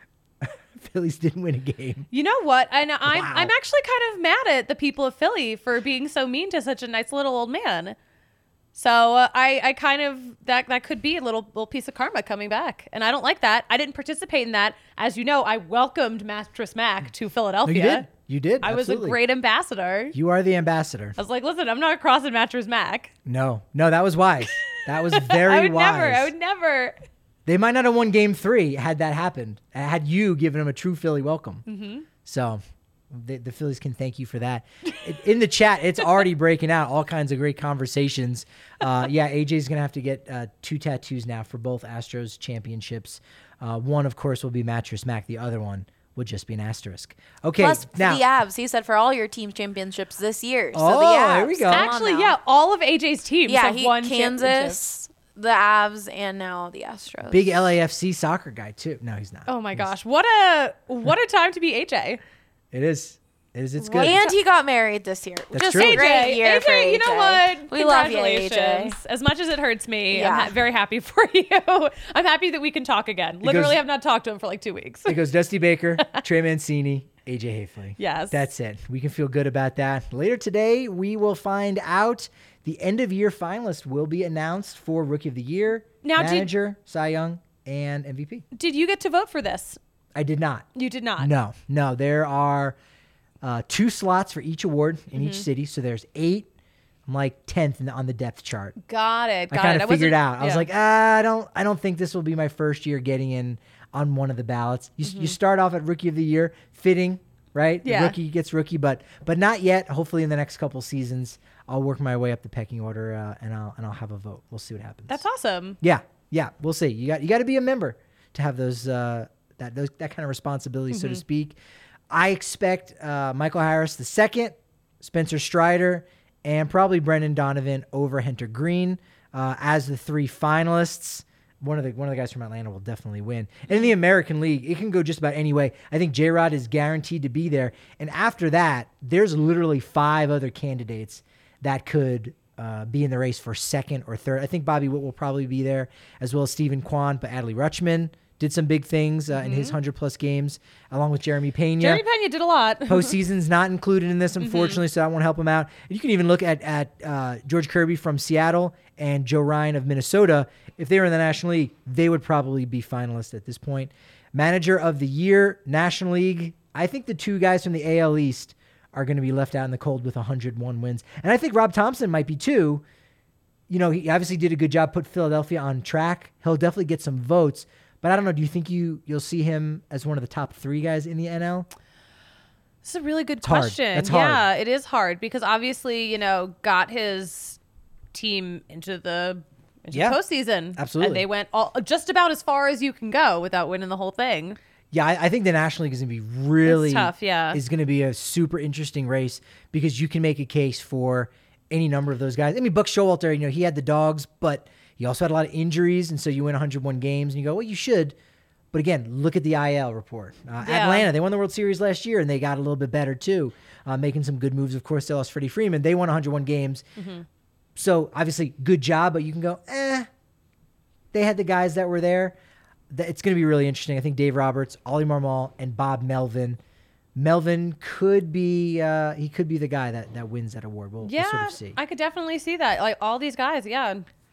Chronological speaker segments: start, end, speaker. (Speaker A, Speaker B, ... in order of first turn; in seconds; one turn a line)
Speaker A: 0.4-2.0
Speaker B: 2.1-8.0
Speaker A: 3.1-3.5
Speaker B: 8.7-18.1
Speaker A: 17.6-19.2
Speaker B: 18.6-20.1
Speaker A: 20.1-21.1
Speaker B: 21.2-23.1
Speaker A: 23.2-26.3
Speaker B: 24.8-27.0
Speaker A: 27.4-31.6
Speaker B: 31.7-32.0
Speaker A: 32.2-48.2
Speaker C: 47.6-52.4
Speaker A: 50.7-51.9
Speaker B: 51.7-54.8
Speaker C: 53.5-57.5
Speaker A: 57.3-59.9
Speaker B: 59.5-62.2
Speaker A: 62.7-64.2
Speaker B: 63.8-64.4
Speaker C: 64.0-68.9
Speaker A: 65.5-66.1
Speaker B: 65.6-75.2
Speaker C: 70.1-70.5
Speaker A: 73.4-73.8
Speaker A: 75.0-88.4
Speaker B: 78.0-78.4
Speaker B: 86.0-86.5
Speaker B: 88.5-89.8
Speaker A: 90.1-90.7
Speaker B: 90.7-91.3
Speaker A: 91.2-92.8
Speaker A: 93.4-96.5
Speaker B: 95.2-95.4
Speaker A: 97.0-98.8
Speaker B: 98.8-100.7
Speaker A: 99.5-115.2
Speaker B: 105.0-105.3
Speaker B: 107.8-108.2
Speaker B: 115.1-115.8
Speaker A: 115.8-121.6
Speaker B: 120.9-121.2
Speaker A: 122.1-152.0
Speaker B: 149.3-149.8
Speaker B: 151.8-153.1
Speaker A: 152.9-172.8
Speaker B: 154.4-154.8
Speaker A: 173.7-181.7
Speaker B: 182.8-187.6
Speaker A: 183.4-184.4
Speaker B: 188.1-194.6
Speaker A: 189.9-190.2
Speaker A: 190.7-191.2
Speaker A: 194.9-208.1
Speaker B: 196.6-197.6
Speaker A: 208.7-216.8
Speaker B: 210.6-211.1
Speaker B: 217.0-217.2
Speaker A: 217.8-220.1
Speaker A: 221.1-222.3
Speaker A: 222.9-226.6
Speaker A: 227.1-231.8
Speaker B: 231.0-234.0